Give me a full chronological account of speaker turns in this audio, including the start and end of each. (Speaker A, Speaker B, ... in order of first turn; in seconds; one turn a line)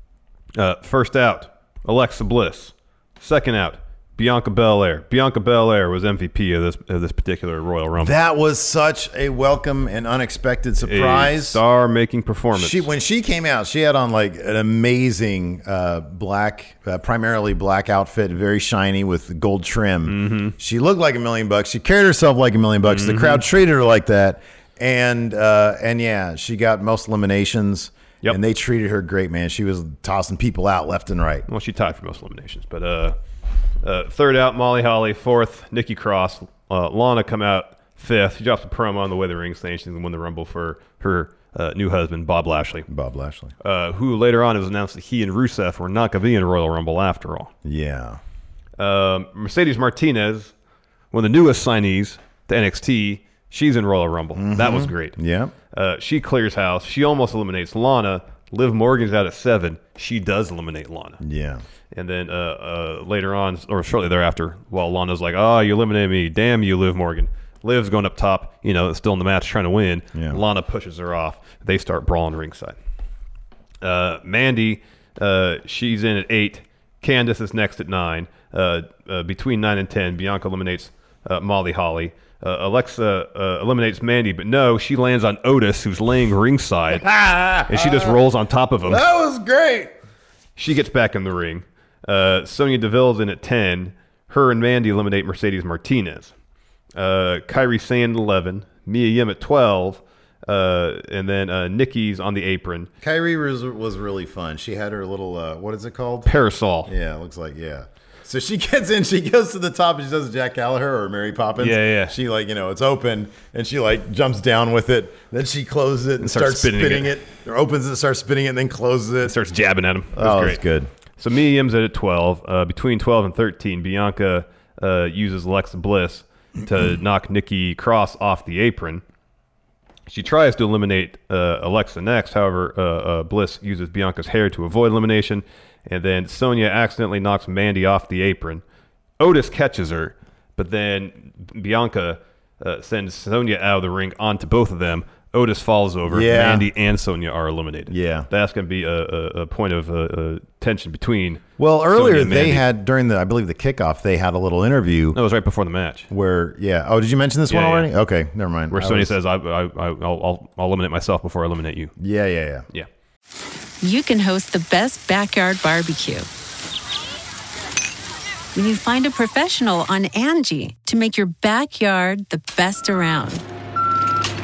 Speaker A: 0.6-8.2
Speaker B: 8.0-11.6
Speaker A: 10.8-12.9
Speaker B: 12.6-31.5
Speaker A: 20.1-20.6
Speaker A: 22.8-23.4
Speaker A: 31.5-33.2
Speaker A: 33.8-42.9
Speaker B: 42.9-43.5
Speaker A: 43.6-47.5
Speaker B: 47.6-48.2
Speaker A: 48.8-50.5
Speaker A: 51.1-55.2
Speaker B: 54.4-55.5
Speaker A: 55.7-61.2
Speaker B: 61.2-61.6
Speaker A: 61.9-72.8
Speaker B: 70.1-70.4
Speaker A: 73.8-87.1
Speaker B: 86.9-88.2
Speaker A: 87.6-89.0
Speaker B: 88.8-89.9
Speaker A: 90.6-96.3
Speaker A: 97.0-102.9
Speaker B: 103.0-106.3
Speaker A: 106.3-106.9
Speaker B: 106.8-119.4
Speaker A: 111.6-112.2
Speaker A: 116.2-117.1
Speaker A: 119.2-120.6
Speaker B: 120.2-120.9
Speaker A: 121.2-129.0
Speaker A: 130.1-138.6
Speaker A: 139.2-152.7
Speaker B: 146.1-146.7
Speaker B: 147.9-148.3
Speaker B: 151.6-155.2
Speaker A: 155.1-156.1
Speaker B: 156.1-159.1
Speaker A: 157.5-157.9
Speaker A: 158.7-161.9
Speaker B: 162.0-162.7
Speaker C: 163.8-166.3
Speaker C: 168.6-173.4